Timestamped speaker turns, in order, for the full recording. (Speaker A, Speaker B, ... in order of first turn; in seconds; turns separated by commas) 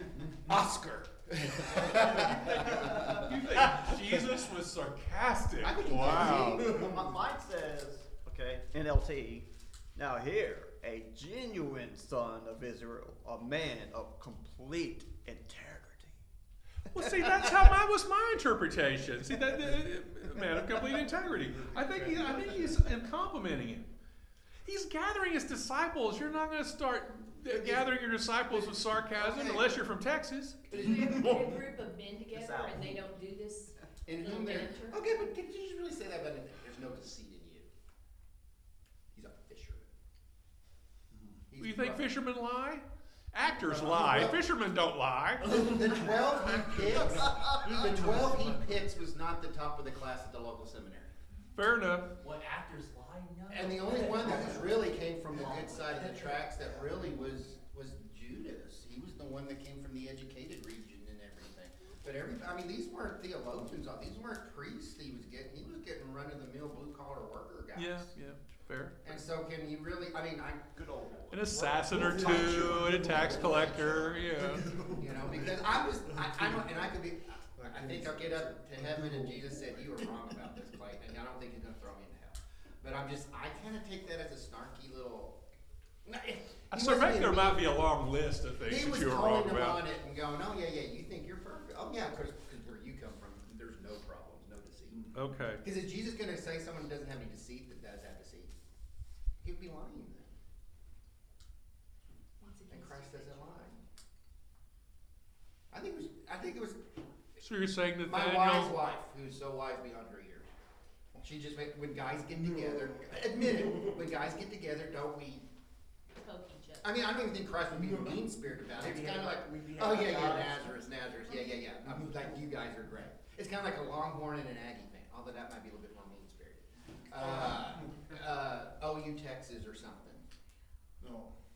Speaker A: 0.4-3.5, Speaker B: 1.9-2.8, Speaker C: 2.1-6.6, Speaker A: 5.6-6.9, Speaker D: 6.0-7.0, Speaker B: 6.2-16.2, Speaker C: 16.9-23.9, Speaker D: 22.3-22.6, Speaker C: 24.6-30.7, Speaker A: 27.5-27.8, Speaker A: 28.5-29.9, Speaker E: 30.7-35.1, Speaker A: 30.7-31.3, Speaker D: 30.9-31.5, Speaker B: 32.3-33.1, Speaker A: 34.0-37.7, Speaker A: 39.1-39.9, Speaker A: 41.5-42.1, Speaker C: 41.6-45.7, Speaker A: 43.4-44.4, Speaker A: 45.5-51.1, Speaker D: 46.5-48.2, Speaker C: 51.5-52.1, Speaker F: 52.2-57.0, Speaker A: 53.5-68.1, Speaker C: 67.7-69.2, Speaker A: 69.0-70.7, Speaker B: 70.7-72.6, Speaker C: 71.3-74.7, Speaker D: 71.9-76.7, Speaker A: 71.9-74.1, Speaker B: 73.3-73.7, Speaker A: 75.0-85.4, Speaker D: 77.6-80.5, Speaker A: 86.0-87.7, Speaker C: 86.7-89.8, Speaker A: 88.7-95.1, Speaker C: 95.1-95.6, Speaker A: 95.6-98.5, Speaker A: 99.4-100.3, Speaker E: 102.4-103.8, Speaker A: 102.7-103.8, Speaker A: 105.7-106.8, Speaker C: 107.4-108.8, Speaker A: 108.0-110.5, Speaker A: 111.2-115.5, Speaker D: 112.4-113.0, Speaker D: 113.5-113.9, Speaker E: 116.1-116.9, Speaker A: 116.8-130.2, Speaker D: 117.7-118.1, Speaker B: 118.7-120.8, Speaker D: 127.3-128.0, Speaker D: 131.0-131.4